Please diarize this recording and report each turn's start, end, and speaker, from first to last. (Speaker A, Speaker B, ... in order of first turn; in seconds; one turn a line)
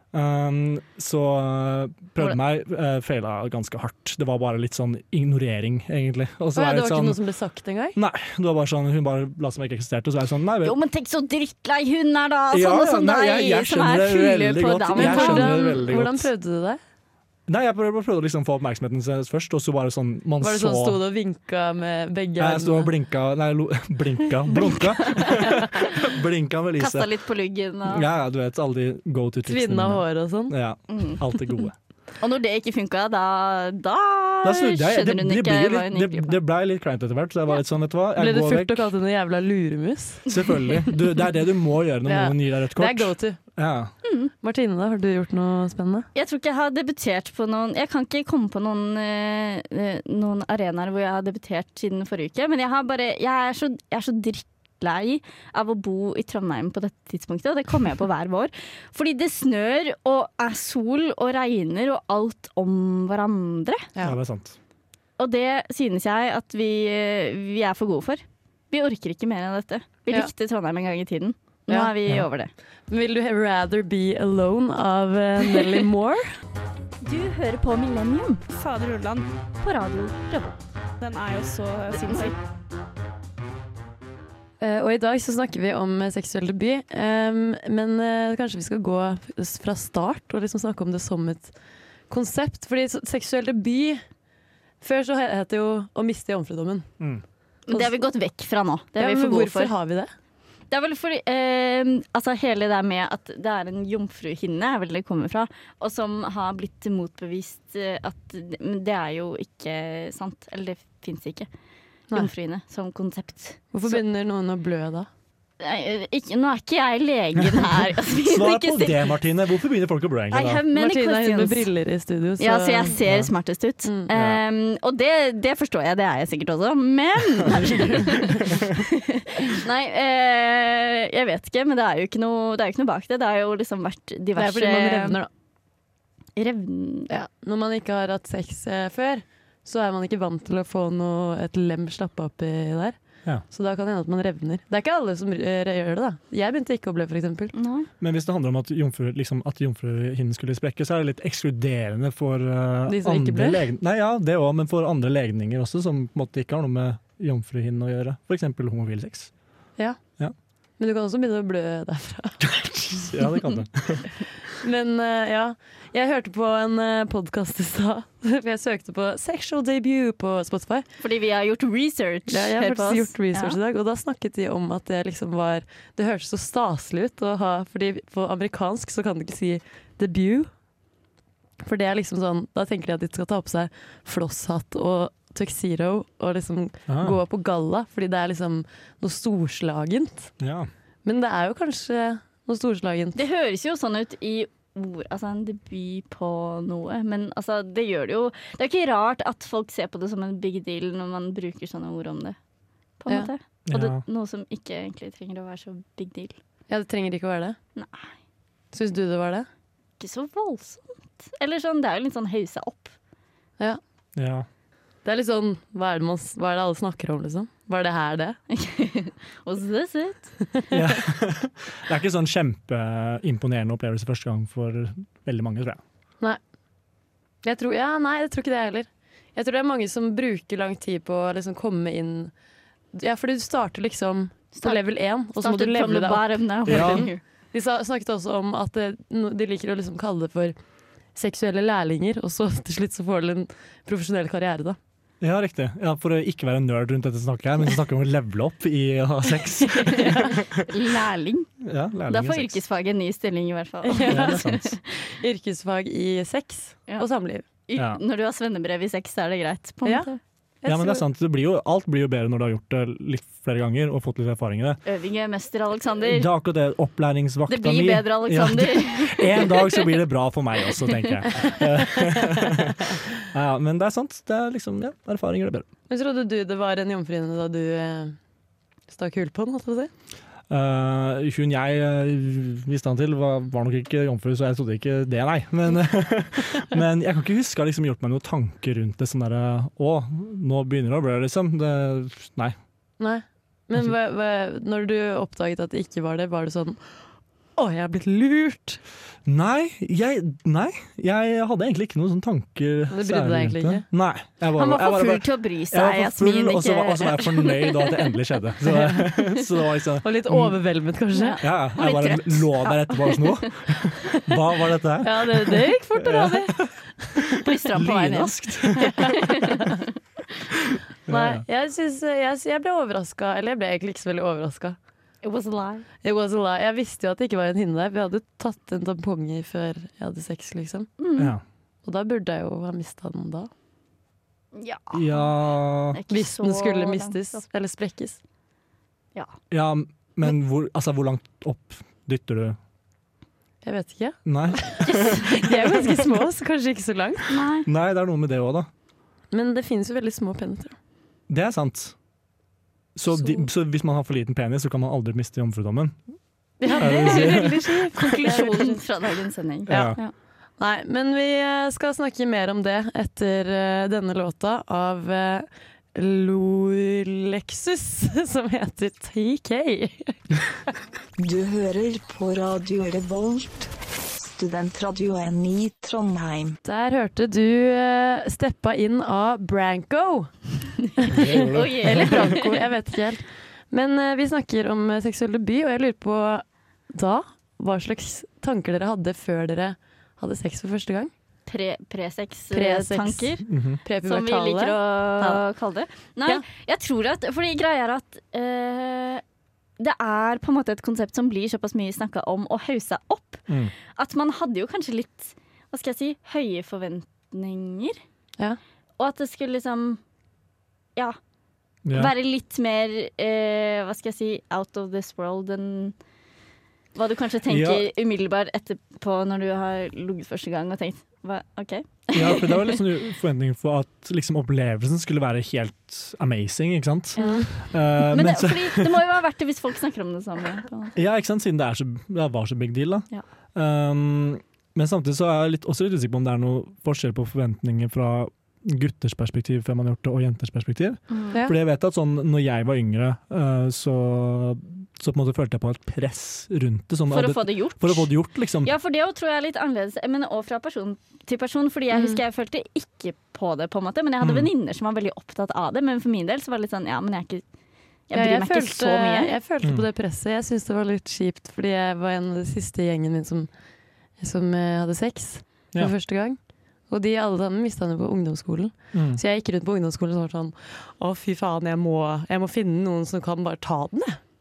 Speaker A: 0.1-7.2
Speaker B: 6.5-8.0
Speaker A: 8.0-10.8
Speaker C: 10.6-15.8
Speaker A: 12.5-16.3
Speaker B: 14.9-16.8
Speaker A: 17.5-21.0
Speaker B: 20.4-22.9
Speaker A: 22.4-27.1
Speaker C: 24.8-25.5
Speaker C: 26.8-28.1
Speaker A: 27.9-31.7
Speaker B: 29.5-30.5
Speaker C: 30.9-31.6
Speaker C: 32.2-36.4
Speaker A: 34.4-38.9
Speaker B: 38.2-40.3
Speaker A: 40.3-43.9
Speaker B: 42.1-43.4
Speaker C: 44.0-44.3
Speaker B: 44.4-46.1
Speaker C: 46.1-63.9
Speaker A: 64.0-64.6
Speaker C: 65.2-72.5
Speaker B: 71.7-71.9
Speaker B: 72.9-76.4
Speaker C: 77.0-78.5
Speaker D: 78.5-79.3
Speaker C: 79.6-80.4
Speaker D: 81.1-82.3
Speaker C: 81.9-82.3
Speaker B: 84.6-91.5
Speaker B: 92.1-94.0
Speaker B: 94.8-96.9
Speaker C: 97.7-99.7
Speaker B: 99.0-100.1
Speaker C: 100.7-111.5
Speaker C: 112.1-114.0
Speaker B: 113.7-115.1
Speaker C: 115.6-119.1
Speaker A: 118.2-120.6
Speaker C: 120.3-121.7
Speaker B: 120.7-122.9
Speaker C: 122.4-135.2
Speaker A: 123.0-123.3
Speaker A: 124.1-124.4
Speaker A: 127.5-128.7
Speaker B: 134.3-135.3
Speaker C: 136.4-137.1
Speaker B: 137.1-147.5
Speaker C: 147.5-147.9
Speaker A: 148.0-159.3
Speaker B: 152.9-153.7
Speaker B: 160.8-162.4
Speaker A: 162.4-164.1
Speaker B: 164.6-170.9
Speaker C: 171.0-173.6
Speaker B: 172.3-180.5
Speaker B: 181.6-190.3
Speaker A: 186.9-187.2
Speaker A: 190.4-190.7
Speaker B: 191.1-193.2
Speaker C: 193.2-202.4
Speaker C: 203.0-206.4
Speaker A: 203.7-204.0
Speaker B: 206.7-207.6
Speaker C: 207.8-208.1
Speaker B: 208.7-209.5
Speaker C: 210.0-212.9
Speaker A: 214.2-214.5
Speaker B: 215.1-218.4
Speaker C: 218.5-220.4
Speaker A: 220.7-225.8
Speaker B: 227.4-232.3
Speaker B: 232.9-240.6
Speaker C: 235.4-237.2
Speaker A: 236.7-237.1
Speaker B: 241.2-244.8
Speaker A: 245.2-250.7
Speaker B: 249.8-250.3
Speaker C: 250.7-251.5
Speaker A: 251.6-252.6
Speaker C: 252.1-254.8
Speaker B: 253.8-254.4
Speaker A: 254.1-254.7
Speaker B: 255.1-257.4
Speaker C: 257.7-260.2
Speaker A: 257.8-258.0
Speaker B: 260.6-261.0
Speaker A: 260.7-264.8
Speaker C: 264.9-266.3
Speaker A: 266.1-275.7
Speaker C: 267.5-269.9
Speaker B: 275.9-278.2
Speaker B: 278.9-279.9
Speaker A: 280.5-292.6
Speaker B: 293.0-296.8
Speaker B: 297.6-298.8
Speaker A: 299.2-310.6
Speaker B: 302.9-303.9
Speaker C: 304.6-308.2
Speaker B: 308.7-309.1
Speaker B: 310.0-311.4
Speaker C: 311.1-313.5
Speaker A: 311.4-316.7
Speaker B: 315.0-316.5
Speaker C: 317.4-319.7
Speaker A: 317.7-319.2
Speaker B: 318.8-319.8
Speaker A: 321.1-321.4
Speaker B: 321.1-324.8
Speaker C: 325.2-325.9
Speaker B: 326.0-330.9
Speaker C: 331.0-331.3
Speaker A: 331.2-331.4
Speaker B: 331.8-333.5
Speaker C: 334.6-335.3
Speaker A: 334.9-336.0
Speaker C: 335.9-337.4
Speaker B: 336.1-338.2
Speaker A: 339.5-342.6
Speaker B: 343.6-347.4
Speaker A: 344.2-345.4
Speaker C: 344.9-345.3
Speaker C: 347.3-347.7
Speaker A: 347.7-348.7
Speaker B: 349.3-350.8
Speaker A: 351.3-351.9
Speaker A: 352.9-356.0
Speaker B: 356.6-358.8
Speaker C: 356.7-360.1
Speaker A: 356.8-357.7
Speaker A: 359.7-360.0
Speaker B: 359.7-360.0
Speaker B: 360.6-370.2
Speaker E: 371.2-376.6
Speaker B: 376.6-380.3
Speaker B: 381.0-391.1
Speaker A: 381.1-382.2
Speaker C: 381.3-382.5
Speaker C: 391.5-393.5
Speaker B: 392.5-395.4
Speaker A: 393.5-393.8
Speaker C: 394.0-399.2
Speaker C: 399.8-408.0
Speaker A: 403.5-403.7
Speaker C: 409.0-410.0
Speaker A: 411.9-412.1
Speaker C: 411.9-415.9
Speaker C: 416.9-422.8
Speaker A: 417.5-417.9
Speaker A: 422.1-428.9
Speaker B: 427.2-427.5
Speaker C: 427.2-431.0
Speaker A: 431.0-448.7
Speaker C: 441.1-441.4
Speaker C: 447.1-448.1
Speaker C: 448.6-457.4
Speaker B: 451.9-452.2
Speaker A: 454.2-454.5
Speaker C: 458.1-459.3
Speaker B: 458.1-463.5
Speaker B: 464.2-474.2
Speaker A: 468.9-469.2